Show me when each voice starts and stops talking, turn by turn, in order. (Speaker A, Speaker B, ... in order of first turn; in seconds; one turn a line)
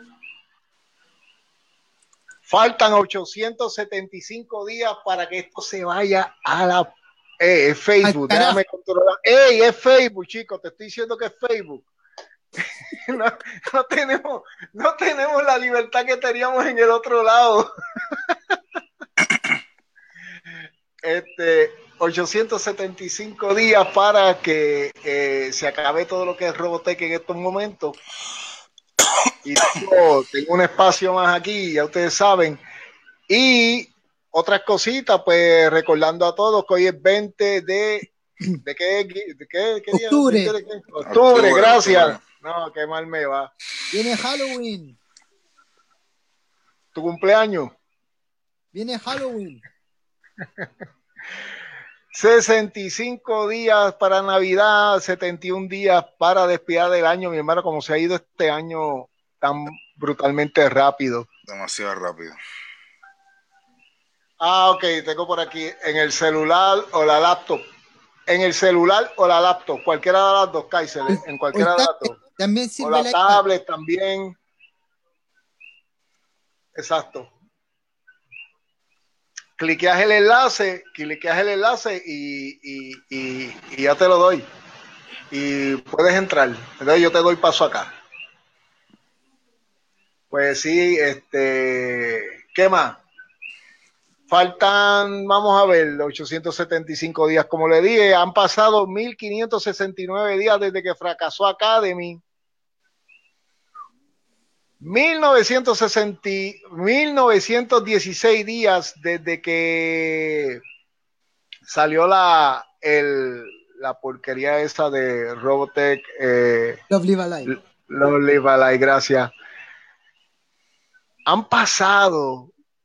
Speaker A: 2.5-11.8
Speaker B: 8.0-8.6
Speaker A: 12.9-18.3
Speaker A: 21.0-28.0
Speaker A: 29.4-32.6
Speaker A: 33.3-38.1
Speaker A: 38.6-43.5
Speaker B: 39.9-40.5
Speaker C: 41.1-42.2
Speaker B: 43.9-45.0
Speaker A: 46.9-47.7
Speaker B: 48.7-49.6
Speaker A: 52.1-61.3
Speaker C: 61.5-62.4
Speaker A: 64.4-67.6
Speaker A: 68.3-72.2
Speaker B: 71.1-73.4
Speaker A: 72.8-74.4
Speaker A: 76.7-77.3
Speaker A: 79.6-84.5
Speaker A: 85.3-87.9
Speaker A: 90.3-93.0
Speaker A: 94.3-102.2
Speaker A: 104.8-110.6
Speaker A: 111.7-116.8
Speaker B: 116.9-117.5
Speaker A: 117.5-119.3
Speaker A: 121.2-122.5